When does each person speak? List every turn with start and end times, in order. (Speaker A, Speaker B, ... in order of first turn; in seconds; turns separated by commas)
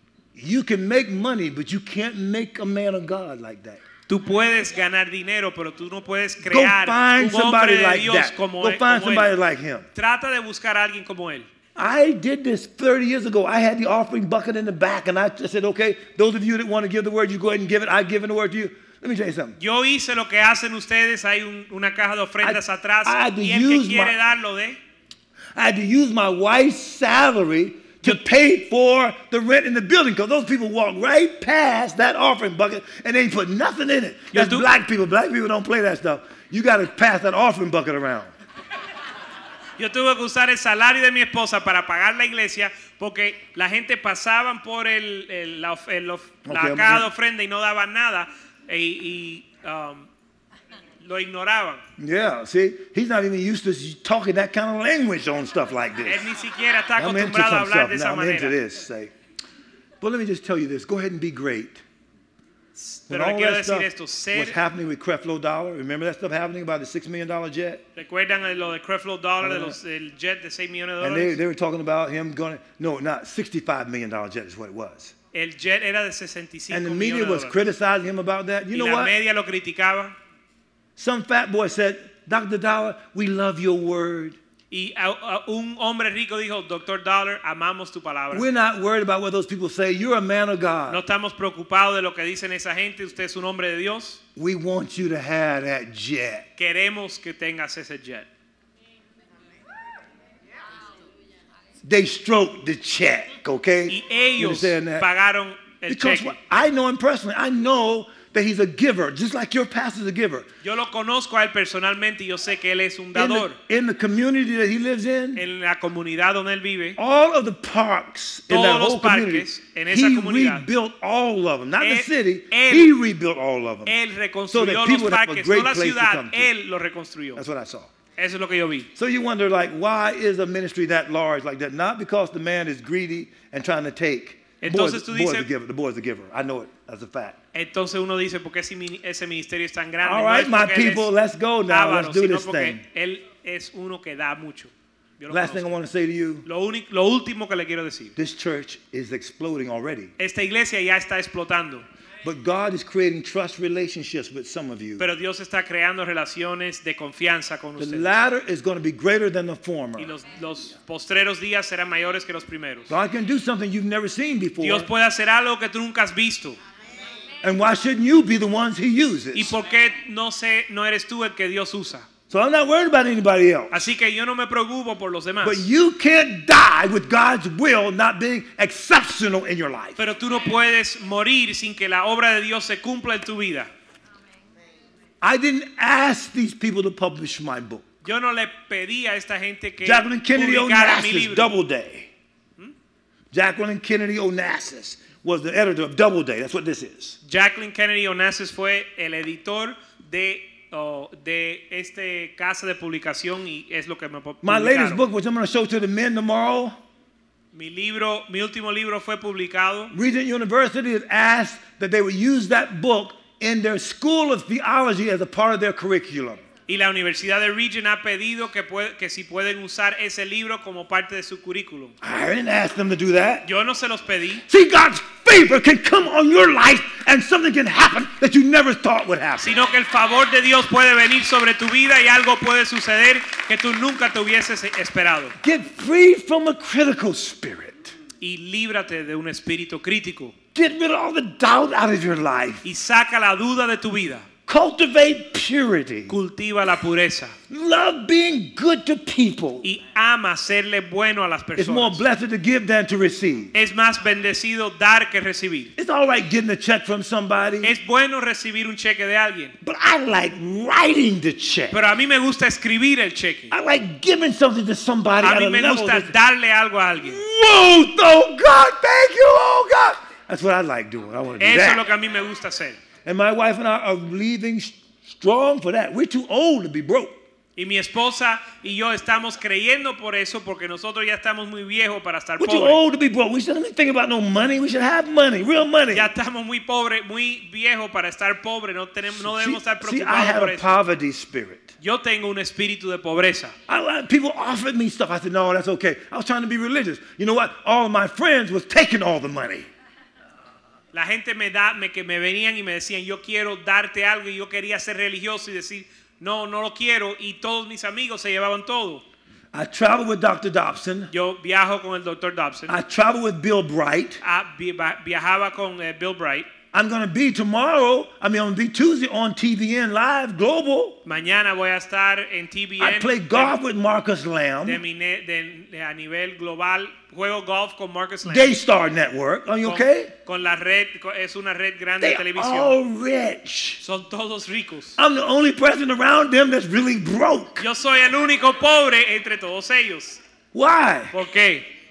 Speaker A: 0.3-3.8, Speaker B: 4.1-9.3, Speaker A: 6.4-9.8, Speaker B: 9.9-11.4, Speaker A: 11.8-19.6, Speaker B: 19.6-24.8, Speaker A: 22.4-24.2, Speaker A: 25.5-38.3, Speaker B: 34.3-34.7, Speaker B: 39.8-50.1, Speaker A: 46.4-47.1, Speaker B: 51.0-51.8, Speaker A: 52.0-56.3, Speaker B: 56.0-58.5, Speaker A: 57.0-59.1, Speaker A: 60.0-61.8, Speaker B: 62.7-64.6, Speaker A: 63.1-67.8, Speaker B: 68.0-71.4, Speaker A: 69.4-69.8, Speaker A: 71.0-75.1, Speaker B: 75.3-77.6, Speaker A: 76.7-79.1, Speaker B: 78.7-80.1, Speaker A: 81.0-84.4, Speaker B: 84.7-88.5, Speaker A: 88.3-91.0, Speaker B: 90.9-94.2, Speaker A: 94.3-96.5, Speaker B: 96.6-98.3, Speaker A: 101.8-105.1, Speaker B: 103.9-106.4, Speaker A: 105.9-110.5, Speaker B: 110.6-113.6, Speaker A: 113.1-115.5, Speaker B: 115.3-117.0, Speaker A: 117.0-124.0, Speaker B: 118.5-120.6, Speaker B: 121.8-122.9, Speaker B: 123.8-127.4, Speaker A: 124.5-126.5, Speaker A: 127.3-127.9, Speaker B: 128.2-128.9, Speaker A: 128.9-137.4, Speaker B: 134.6-135.5, Speaker B: 137.5-141.1, Speaker A: 140.0-142.8, Speaker B: 141.7-145.7, Speaker A: 145.3-146.4, Speaker B: 146.4-148.2, Speaker A: 148.2-150.1, Speaker B: 150.2-151.8, Speaker A: 152.2-155.1, Speaker B: 155.0-158.1, Speaker A: 157.8-160.1, Speaker B: 160.0-162.9, Speaker A: 162.9-164.9, Speaker B: 164.6-166.6, Speaker A: 167.4-169.6, Speaker B: 169.3-172.1, Speaker A: 172.3-173.9, Speaker B: 173.7-175.6, Speaker A: 175.4-180.0, Speaker B: 180.0-183.7, Speaker A: 185.2-187.8, Speaker B: 188.0-191.5, Speaker A: 189.8-192.1, Speaker A: 193.3-197.2, Speaker B: 197.2-205.0, Speaker A: 204.4-206.8, Speaker B: 207.5-209.9, Speaker A: 209.9-216.4, Speaker B: 216.7-221.9, Speaker A: 222.0-223.5, Speaker B: 223.4-224.4, Speaker A: 224.5-229.6, Speaker B: 229.4-235.3, Speaker A: 235.4-237.9, Speaker B: 238.2-240.3, Speaker A: 240.5-242.6, Speaker B: 242.6-244.3, Speaker A: 244.5-246.2, Speaker B: 246.1-247.3, Speaker A: 247.5-249.7, Speaker B: 249.6-252.0, Speaker A: 251.6-253.5, Speaker B: 253.5-255.7, Speaker A: 255.8-257.7, Speaker B: 257.6-259.5, Speaker A: 259.6-261.8, Speaker B: 261.7-263.5, Speaker A: 263.5-266.1, Speaker B: 265.2-267.2, Speaker A: 267.0-271.9, Speaker B: 271.4-272.8, Speaker A: 273.0-277.2, Speaker B: 277.6-282.8, Speaker A: 282.4-286.1, Speaker B: 285.9-290.8, Speaker A: 289.1-291.7, Speaker B: 291.8-293.5, Speaker A: 293.7-299.7, Speaker B: 300.9-309.0, Speaker A: 309.5-311.1, Speaker B: 311.1-312.8, Speaker A: 312.7-314.2, Speaker B: 314.2-316.5, Speaker A: 316.7-321.0, Speaker B: 321.0-323.5, Speaker A: 322.8-324.8, Speaker B: 324.6-328.6, Speaker A: 328.2-330.1, Speaker B: 329.6-332.8, Speaker A: 332.0-333.8, Speaker B: 333.8-335.0, Speaker A: 335.0-337.6, Speaker B: 337.6-340.2, Speaker A: 340.5-341.1, Speaker B: 341.1-341.7